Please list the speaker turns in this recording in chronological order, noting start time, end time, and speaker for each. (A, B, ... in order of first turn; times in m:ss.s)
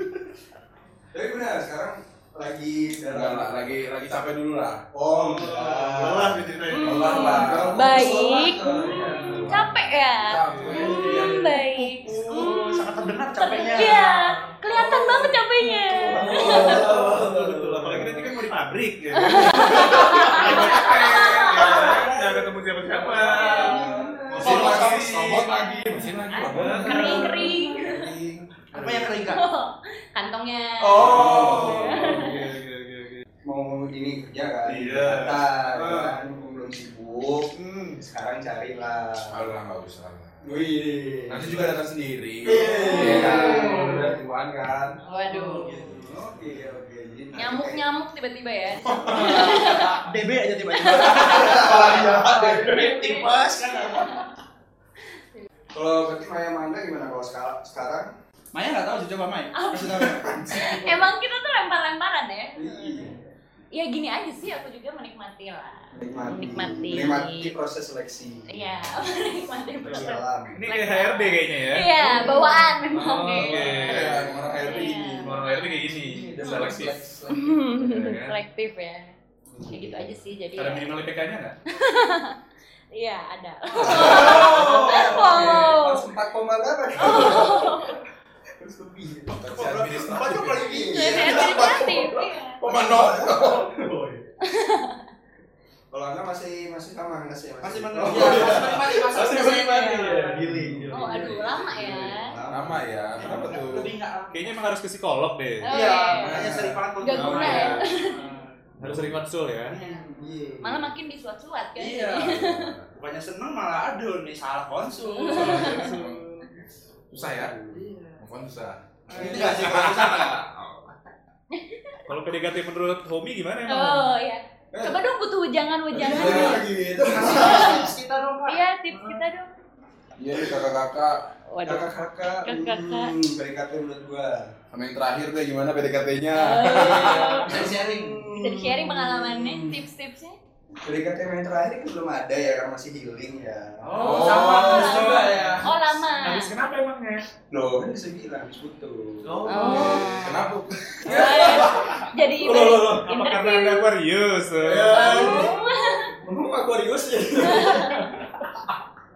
0:01.1-0:03.8 A
0:03.1-0:04.8 B
0:04.9-0:09.7 A
0:05.1-0:07.4 C
0:06.8-0:12.7 D
0:06.8-0:08.2 B
0:08.9-0:09.5 C
0:10.2-0:12.7 B
0:10.4-0:11.0 C
0:10.8-0:11.3 A
0:12.3-0:14.3 E
0:13.4-0:16.9 D
0:15.9-0:16.9 B
0:16.1-0:18.2 A
0:16.2-0:17.1 E
0:16.3-0:25.4 C
0:19.1-0:22.1 D
0:19.3-0:21.3 B
0:21.6-0:25.5 A
0:23.2-0:24.1 D
0:23.3-0:23.9 E
0:24.4-0:28.2 B
0:24.5-0:24.8 E
0:25.4-0:28.1 D
0:26.5-0:27.3 C
0:26.5-0:28.1 A
0:28.7-0:29.4 E
0:29.2-0:32.5 D
0:30.9-0:33.2 C
0:31.0-0:32.3 A
0:31.0-0:31.7 B
0:33.4-0:37.5 A
0:34.6-0:36.2 C
0:37.5-0:38.0 C
0:38.0-0:39.5 A
0:39.3-0:40.7 B
0:40.4-0:41.7 A
0:41.3-0:45.0 B
0:42.4-0:44.2 A
0:43.0-0:43.6 D
0:43.0-0:44.0 E
0:45.0-0:45.9 D
0:45.3-0:45.9 E
0:45.4-0:47.8 A
0:47.3-0:50.1 D
0:48.7-0:49.7 B
0:49.2-0:49.5 A
0:49.2-0:54.2 E
0:50.7-0:54.2 D
0:51.1-0:52.6 A
0:51.2-0:52.8 B
0:55.7-0:58.1 A
0:58.5-1:00.9 E
0:59.5-1:03.1 D
0:59.9-1:00.9 A
1:02.5-1:03.3 A
1:03.7-1:07.5 D
1:05.9-1:08.8 A
1:08.5-1:14.1 D
1:09.8-1:10.6 A
1:09.9-1:11.9 C
1:12.0-1:15.2 A
1:12.8-1:14.3 C
1:13.8-1:15.2 B
1:14.6-1:19.2 D
1:15.2-1:17.0 C
1:15.9-1:17.7 A
1:17.7-1:18.4 C
1:19.5-1:20.1 A
1:19.7-1:20.9 D
1:20.6-1:21.6 C
1:21.7-1:22.4 D
1:22.9-1:26.1 D
1:23.8-1:28.0 A
1:23.8-1:24.5 B
1:23.9-1:25.6 C
1:24.3-1:25.2 E
1:27.0-1:28.0 D
1:28.6-1:29.4 A
1:29.3-1:32.0 B
1:29.5-1:32.0 E
1:30.5-1:32.1 A
1:30.9-1:32.6 D
1:32.6-1:33.7 B
1:32.7-1:33.9 A
1:34.4-1:35.1 D
1:35.9-1:43.8 A
1:37.6-1:40.4 E
1:38.0-1:39.4 B
1:38.1-1:38.5 C
1:39.4-1:41.9 C
1:40.5-1:40.9 B
1:40.9-1:42.4 D
1:42.5-1:43.9 B
1:43.2-1:44.6 E
1:44.3-1:45.7 C
1:45.6-1:46.5 D
1:45.7-1:48.5 E
1:46.2-1:46.8 A
1:47.0-1:48.3 D
1:47.1-1:48.0 C
1:48.8-1:49.8 C
1:48.8-1:49.1 B
1:49.7-1:50.0 E
1:49.8-1:50.9 A
1:50.6-1:52.8 D
1:51.8-1:52.4 E
1:52.2-1:52.8 B
1:52.9-1:56.1 E
1:55.1-1:56.0 D
1:55.3-1:56.0 C
1:55.3-1:56.2 B
1:57.1-1:57.5 B
1:57.2-1:58.0 A
1:57.7-1:58.1 E
1:58.2-2:00.3 B
1:59.1-1:59.8 C
1:59.1-2:00.9 E
1:59.2-1:59.8 A
2:01.5-2:02.0 D
2:02.0-2:04.1 C
2:03.7-2:06.7 D
2:04.7-2:05.0 A
2:05.9-2:07.3 B
2:05.9-2:07.9 A
2:07.0-2:09.2 E
2:07.3-2:07.9 D
2:08.5-2:09.5 D
2:10.2-2:11.2 B
2:11.5-2:13.2 D
2:11.6-2:14.5 A
2:14.7-2:17.5 B
2:16.3-2:17.6 D
2:16.7-2:18.2 E
2:16.8-2:19.8 A
2:18.3-2:20.4 D
2:20.8-2:24.2 A
2:23.8-2:25.6 C
2:23.9-2:25.7 E
2:24.0-2:25.2 B
2:24.3-2:26.6 D
2:26.1-2:27.3 C
2:27.5-2:30.1 A
2:29.2-2:30.2 C
2:29.5-2:30.5 D
2:29.7-2:32.0 B
2:31.0-2:33.9 D
2:31.1-2:31.6 A
2:31.1-2:35.4 C
2:34.6-2:35.6 A
2:34.9-2:36.2 D
2:36.2-2:38.1 A
2:37.4-2:38.1 D